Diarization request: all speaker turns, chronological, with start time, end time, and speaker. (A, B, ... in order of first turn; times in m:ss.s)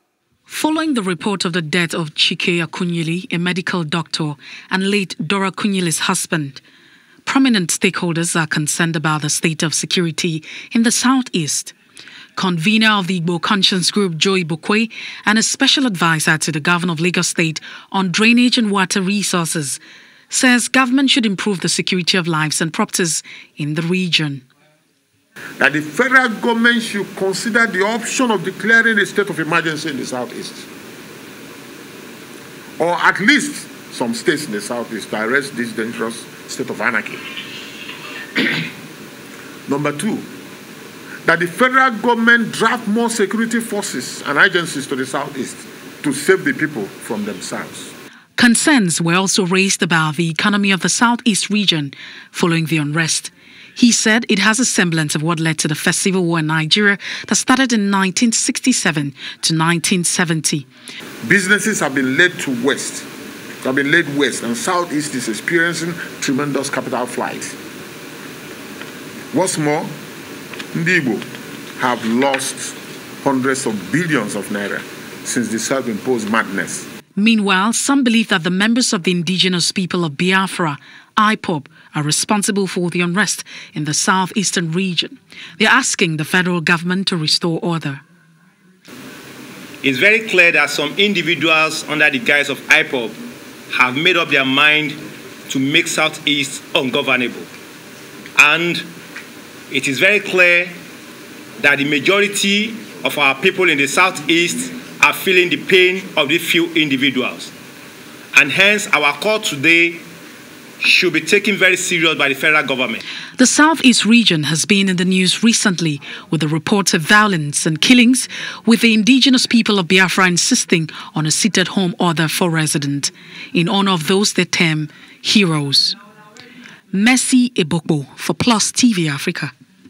0:00.5-0:06.6 A
0:07.2-0:11.7 A
0:12.4-0:19.8 A
0:20.3-0:24.4 A
0:25.6-0:30.7 B
0:32.8-0:37.2 B
0:39.7-0:40.3 B
0:41.2-0:47.9 B
0:48.4-1:00.6 A
1:01.2-1:03.1 B
1:03.6-1:07.6 B
1:09.3-1:09.9 B
1:10.7-1:16.9 B
1:17.2-1:28.0 A
1:29.8-1:33.2 C
1:33.7-1:37.5 C
1:38.4-1:38.8 C
1:39.7-1:40.7 C
1:41.6-1:47.5 C
1:48.3-1:50.0 C
1:50.8-1:53.0 C
1:53.4-2:06.0 A
2:06.9-2:09.5 A